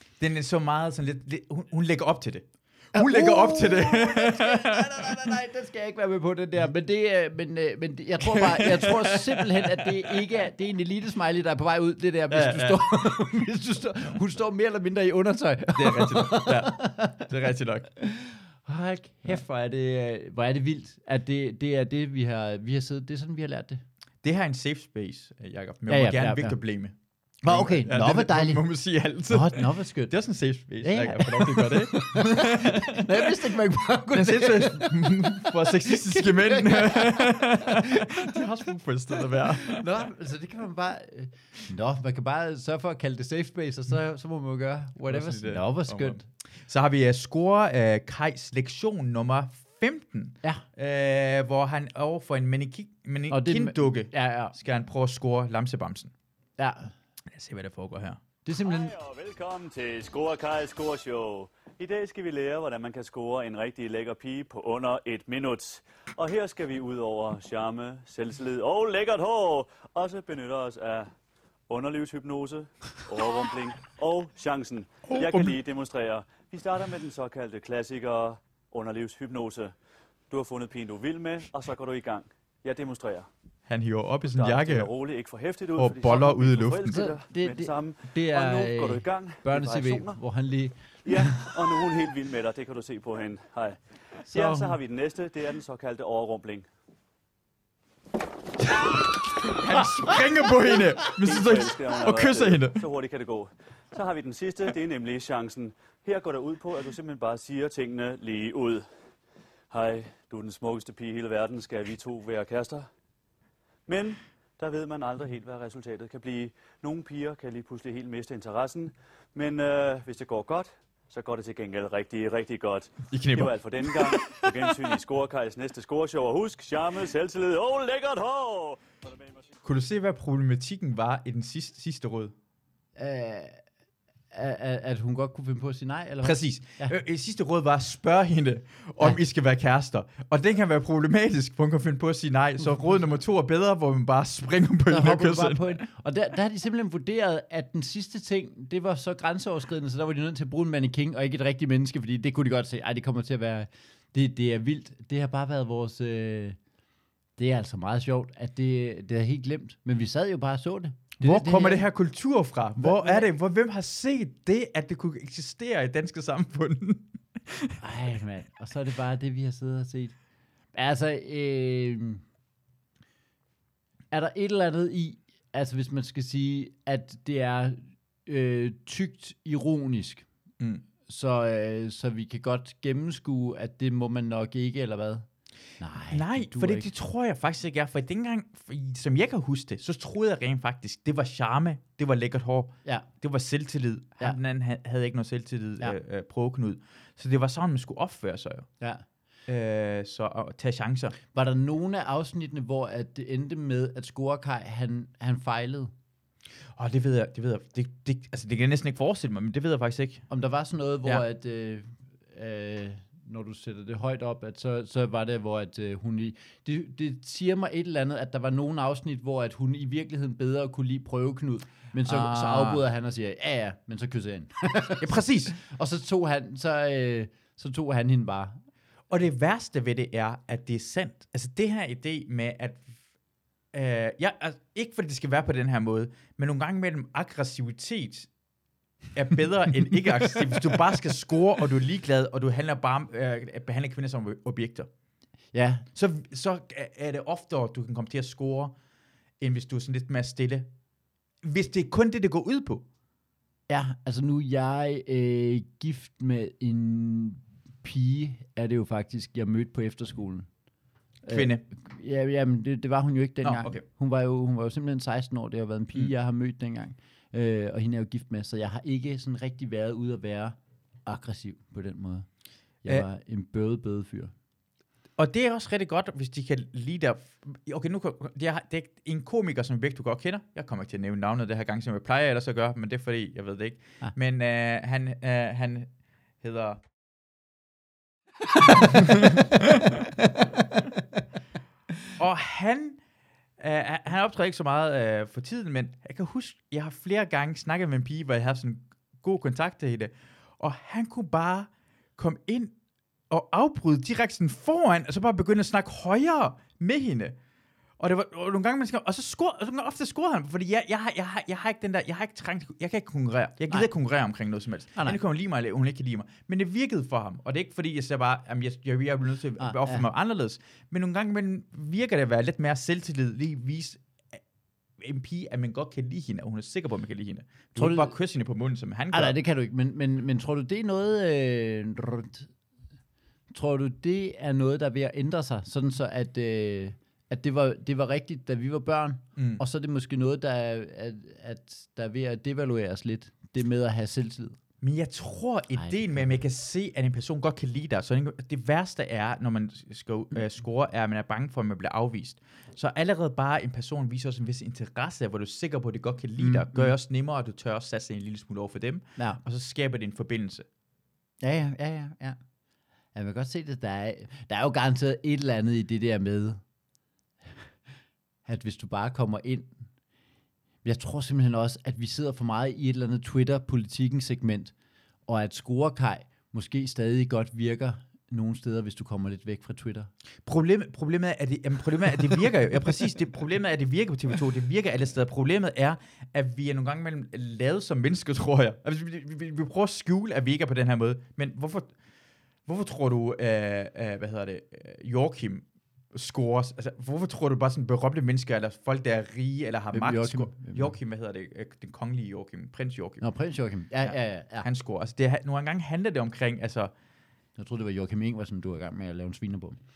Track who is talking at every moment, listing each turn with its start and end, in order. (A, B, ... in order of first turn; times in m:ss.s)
0:00.2-0:05.3 A
0:02.9-0:17.3 B
0:08.2-0:10.2 A
0:12.3-0:12.9 A
0:15.8-0:17.9 A
0:18.0-0:23.8 B
0:24.2-0:33.3 A
0:25.9-0:26.6 B
0:27.4-0:28.6 B
0:29.3-0:30.2 B
0:30.8-0:38.4 B
0:34.1-0:39.8 A
0:39.4-0:46.2 B
0:45.0-0:56.1 A
0:53.3-0:54.5 B
0:56.6-0:56.9 B
0:57.3-0:58.2 A
0:58.4-0:59.0 B
0:58.6-1:11.1 C
1:11.7-1:19.7 C
1:15.0-1:15.6 A
1:20.3-1:23.3 C
1:23.7-1:24.9 A
1:24.3-1:30.2 C
1:25.7-1:27.0 A
1:26.9-1:31.5 B
1:31.0-1:36.6 C
1:34.3-1:34.7 B
1:39.5-1:42.8 A
1:41.0-1:48.8 C
1:49.7-1:52.9 C
1:53.9-2:09.4 C
2:03.1-2:04.7 A
2:09.6-2:12.3 A
2:13.0-2:13.6 B
2:14.3-2:16.9 B
2:16.2-2:25.7 A
2:24.9-2:36.6 B
2:37.4-2:41.8 B
2:41.2-2:47.8 A
2:42.8-2:43.3 B
2:47.8-2:50.2 B
2:50.7-2:52.2 B
2:54.1-3:00.2 B
3:01.0-3:05.2 B
3:05.8-3:06.9 B
3:06.1-3:18.7 A
3:18.8-3:19.0 B
3:19.5-3:21.1 A
3:21.3-3:25.9 B
3:26.7-3:30.2 A
3:30.3-3:48.6 B
3:42.0-3:42.8 A
3:45.0-3:45.5 A
3:49.1-3:52.8 A
3:53.7-3:58.3 A
3:59.1-4:04.9 A
4:05.5-4:05.8 B
4:05.9-4:08.7 A
4:09.4-4:10.7 A
4:11.4-4:12.8 A
4:13.7-4:20.5 B
4:21.2-4:32.3 B
4:21.3-4:21.6 A
4:23.4-4:23.8 A
4:32.8-4:34.3 B
4:35.2-4:46.8 A
4:48.9-4:49.6 A
4:52.2-4:53.0 A
4:53.6-5:02.8 A
5:03.3-5:07.4 A
5:08.0-5:24.4 A
5:19.6-5:20.0 B
5:25.0-5:29.4 A
5:27.8-5:28.1 B
5:29.1-5:32.5 B
5:33.5-5:44.6 B
5:39.4-5:39.6 A
5:44.8-6:00.6 A
5:45.8-5:46.4 B
5:56.4-5:56.9 B
6:01.4-6:02.4 B
6:03.1-6:06.6 B
6:08.4-6:09.9 B
6:10.8-6:14.7 B
6:15.3-6:20.1 B
6:20.4-6:31.9 A
6:32.6-6:43.2 A
6:39.9-6:40.9 B
6:43.2-6:44.7 B
6:44.0-6:46.9 A
6:47.6-6:49.8 B